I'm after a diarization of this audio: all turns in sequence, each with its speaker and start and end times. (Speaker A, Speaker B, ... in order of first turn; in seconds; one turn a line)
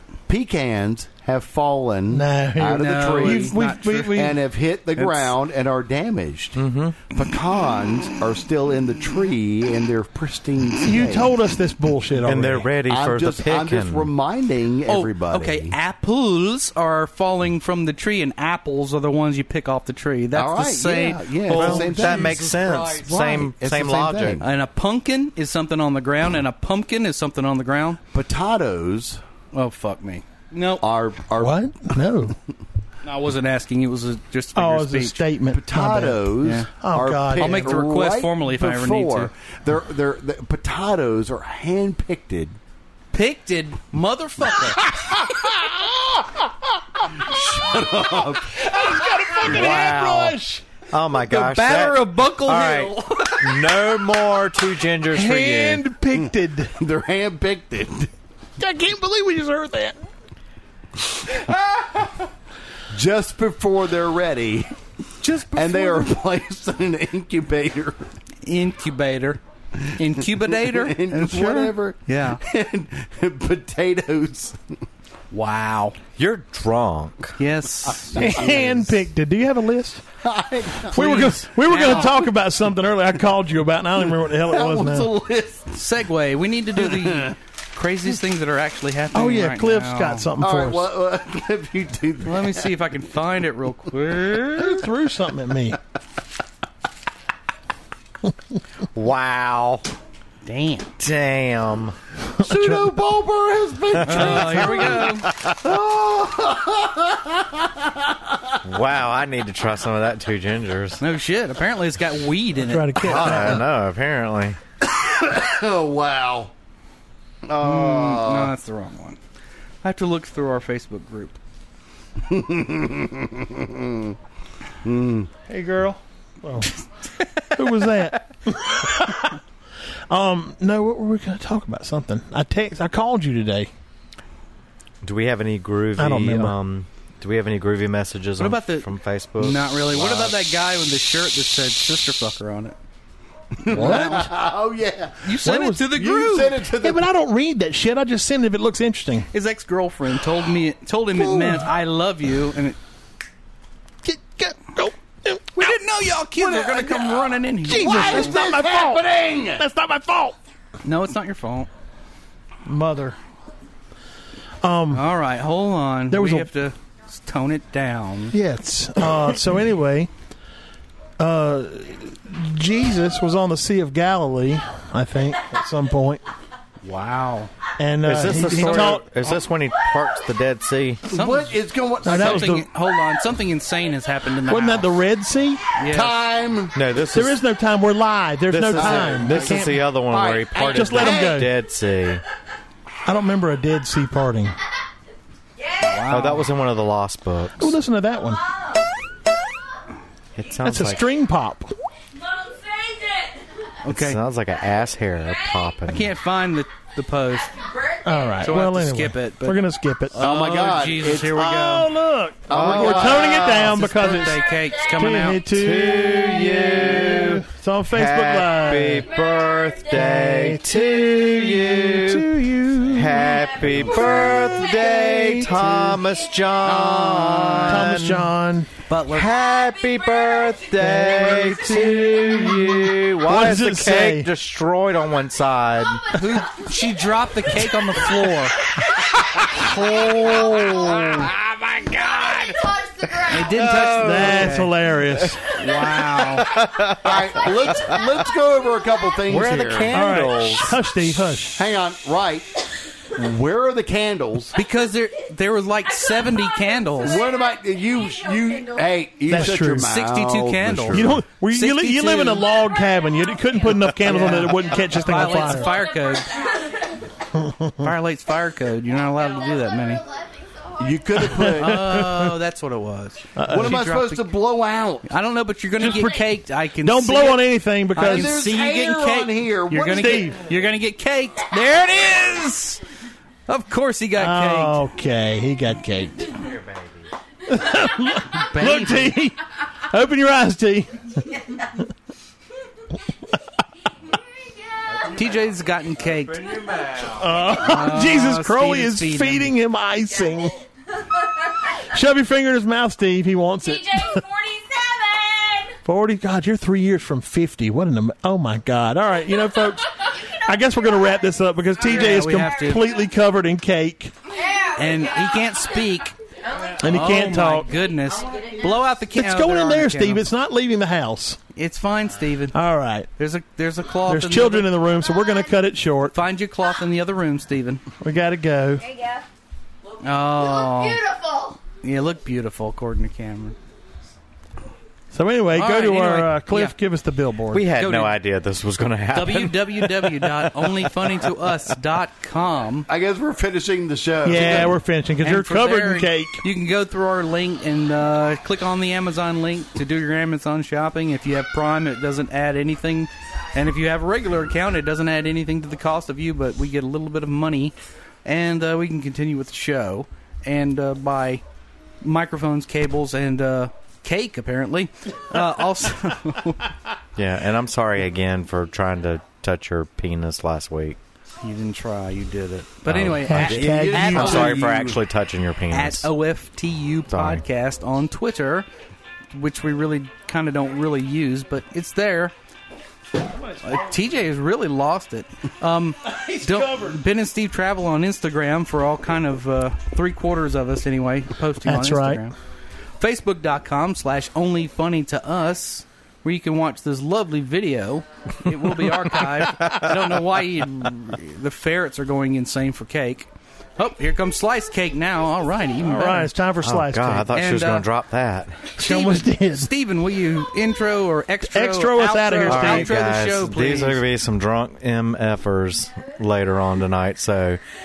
Speaker A: 0.3-11.3
Speaker B: 2.1-4.4
Speaker C: 2.7-4.2
Speaker C: 5.0-5.3
Speaker D: 6.6-7.0
Speaker B: 10.8-12.7
Speaker D: 12.2-14.1
Speaker A: 12.9-15.8
Speaker C: 14.9-22.9
Speaker A: 20.3-24.5
Speaker D: 21.5-24.4
Speaker B: 21.5-22.1
Speaker C: 24.4-28.0
Speaker A: 28.1-29.2
Speaker C: 29.5-30.9
Speaker A: 30.8-31.6
Speaker B: 31.4-32.4
Speaker C: 33.0-35.2
Speaker B: 34.5-37.7
Speaker A: 35.5-42.6
Speaker C: 36.4-36.7
Speaker C: 37.4-39.3
Speaker C: 43.1-44.9
Speaker B: 44.7-46.4
Speaker A: 47.1-48.7
Speaker B: 48.6-50.6
Speaker D: 49.4-50.4
Speaker A: 49.5-49.9
Speaker D: 50.9-55.9
Speaker C: 51.3-53.8
Speaker B: 55.1-56.7
Speaker A: 56.1-58.1
Speaker B: 58.6-60.0
Speaker A: 61.3-62.1
Speaker A: 62.9-64.8
Speaker C: 65.2-66.2
Speaker A: 65.5-68.1
Speaker C: 68.4-69.4
Speaker A: 69.8-74.6
Speaker C: 70.0-72.4
Speaker C: 75.3-76.0
Speaker D: 76.2-77.4
Speaker C: 77.4-78.4
Speaker A: 77.9-79.0
Speaker B: 78.2-80.0
Speaker A: 80.2-82.3
Speaker B: 80.9-85.1
Speaker C: 80.9-82.2
Speaker A: 84.1-85.8
Speaker C: 85.7-90.3
Speaker A: 86.8-87.3
Speaker B: 89.1-90.9
Speaker A: 90.4-92.7
Speaker C: 92.2-94.7
Speaker B: 94.6-95.8
Speaker D: 99.0-99.9
Speaker C: 100.5-100.9
Speaker D: 101.0-102.0
Speaker A: 102.4-108.6
Speaker B: 102.4-102.8
Speaker C: 104.0-105.3
Speaker D: 104.1-104.7
Speaker D: 108.6-111.0
Speaker C: 111.0-113.1
Speaker B: 112.6-113.7
Speaker A: 113.0-113.6
Speaker D: 113.1-114.6
Speaker A: 114.8-116.5
Speaker A: 117.5-118.5
Speaker C: 117.6-119.2
Speaker C: 119.8-121.4
Speaker A: 122.2-124.2
Speaker A: 124.8-125.3
Speaker B: 125.5-126.7
Speaker B: 127.5-129.4
Speaker B: 130.1-133.7
Speaker D: 135.0-140.2
Speaker B: 136.0-136.6
Speaker C: 138.4-138.9
Speaker C: 139.4-142.8
Speaker A: 140.0-140.3
Speaker A: 143.6-147.1
Speaker C: 143.7-144.2
Speaker B: 143.7-144.3
Speaker C: 145.2-146.6
Speaker B: 145.4-146.0
Speaker B: 146.8-149.3
Speaker C: 149.3-152.8
Speaker A: 151.2-151.6
Speaker B: 154.0-156.1
Speaker C: 155.6-158.4
Speaker A: 156.3-159.7
Speaker B: 157.6-160.4
Speaker C: 160.8-161.7
Speaker B: 162.7-163.2
Speaker B: 164.6-165.1
Speaker C: 164.9-168.3
Speaker B: 166.1-166.5
Speaker B: 168.3-170.1
Speaker B: 171.2-176.2
Speaker C: 176.8-177.5
Speaker B: 177.8-179.4
Speaker D: 178.0-181.1
Speaker A: 181.1-182.6
Speaker C: 181.1-184.9
Speaker B: 182.0-182.7
Speaker B: 184.5-185.7
Speaker C: 185.8-186.2
Speaker A: 185.9-186.8
Speaker D: 186.8-187.4
Speaker B: 187.1-189.8
Speaker D: 188.5-192.2
Speaker A: 188.7-191.5
Speaker B: 190.7-191.5
Speaker B: 193.1-194.6
Speaker C: 195.8-196.5
Speaker D: 196.1-197.8
Speaker B: 197.6-198.4
Speaker D: 200.4-201.1
Speaker B: 200.6-201.7
Speaker C: 203.8-204.2
Speaker D: 203.9-206.1
Speaker C: 205.9-207.6
Speaker B: 208.0-210.2
Speaker C: 208.4-212.0
Speaker A: 210.2-211.4
Speaker B: 211.3-219.1
Speaker A: 212.5-213.8
Speaker D: 212.5-213.5
Speaker C: 213.5-215.6
Speaker D: 215.5-228.3
Speaker B: 219.9-223.9
Speaker A: 223.8-224.3
Speaker B: 225.1-226.0
Speaker C: 226.6-228.0
Speaker B: 227.6-228.7
Speaker C: 228.9-229.3
Speaker D: 229.1-236.2
Speaker B: 230.8-234.3
Speaker C: 236.1-238.6
Speaker D: 239.2-244.6
Speaker C: 243.3-244.7
Speaker B: 244.0-245.5
Speaker D: 245.2-248.1
Speaker C: 245.5-246.5
Speaker A: 247.0-250.0
Speaker D: 249.3-250.8
Speaker B: 249.9-251.6
Speaker A: 251.6-252.6
Speaker A: 253.2-254.6
Speaker C: 254.6-257.2
Speaker A: 257.0-261.2
Speaker B: 259.3-259.9
Speaker C: 259.4-262.5
Speaker B: 260.9-265.8
Speaker C: 264.0-266.4
Speaker B: 267.4-267.9
Speaker C: 267.8-270.0
Speaker A: 270.8-272.0
Speaker B: 271.2-272.4
Speaker C: 271.6-274.3
Speaker B: 273.4-273.8
Speaker A: 273.5-275.1
Speaker C: 275.1-282.8
Speaker B: 275.8-278.4
Speaker A: 278.0-280.3
Speaker B: 280.0-280.4
Speaker C: 283.5-284.8
Speaker B: 284.2-286.3
Speaker D: 286.3-287.1
Speaker B: 287.5-291.1
Speaker C: 288.4-289.2
Speaker D: 294.9-297.7
Speaker C: 295.1-296.5
Speaker B: 297.2-300.6
Speaker C: 297.6-299.5
Speaker B: 301.9-304.2
Speaker E: 304.1-305.5
Speaker B: 305.9-314.1
Speaker C: 311.8-312.9
Speaker C: 314.8-316.1
Speaker E: 316.5-317.0
Speaker B: 316.8-317.7
Speaker C: 316.8-320.2
Speaker E: 318.1-318.7
Speaker B: 319.1-321.4
Speaker C: 321.6-322.6
Speaker B: 322.5-323.1
Speaker C: 323.2-324.7
Speaker B: 324.1-326.1
Speaker C: 326.1-327.8
Speaker B: 328.0-328.9
Speaker C: 330.0-331.0
Speaker E: 330.7-331.6
Speaker C: 331.8-333.6
Speaker B: 335.1-337.7
Speaker C: 335.5-336.7
Speaker D: 337.5-341.1
Speaker C: 337.8-338.2
Speaker C: 339.1-342.9
Speaker A: 342.9-344.8
Speaker B: 344.2-346.4
Speaker C: 344.3-361.4
Speaker C: 362.0-366.7
Speaker D: 367.2-371.0
Speaker C: 371.4-374.7
Speaker D: 372.9-376.1
Speaker B: 373.3-374.6
Speaker A: 373.4-375.0
Speaker C: 375.7-378.7
Speaker D: 377.1-377.4
Speaker C: 379.3-382.3
Speaker B: 383.2-383.8
Speaker C: 383.6-392.4
Speaker B: 386.0-387.0
Speaker B: 391.6-392.3
Speaker C: 393.0-406.3
Speaker D: 399.5-399.9
Speaker B: 405.8-407.3
Speaker D: 406.6-408.7
Speaker C: 407.3-407.9
Speaker B: 408.8-409.7
Speaker C: 408.8-414.0
Speaker B: 411.4-413.0
Speaker D: 412.5-417.6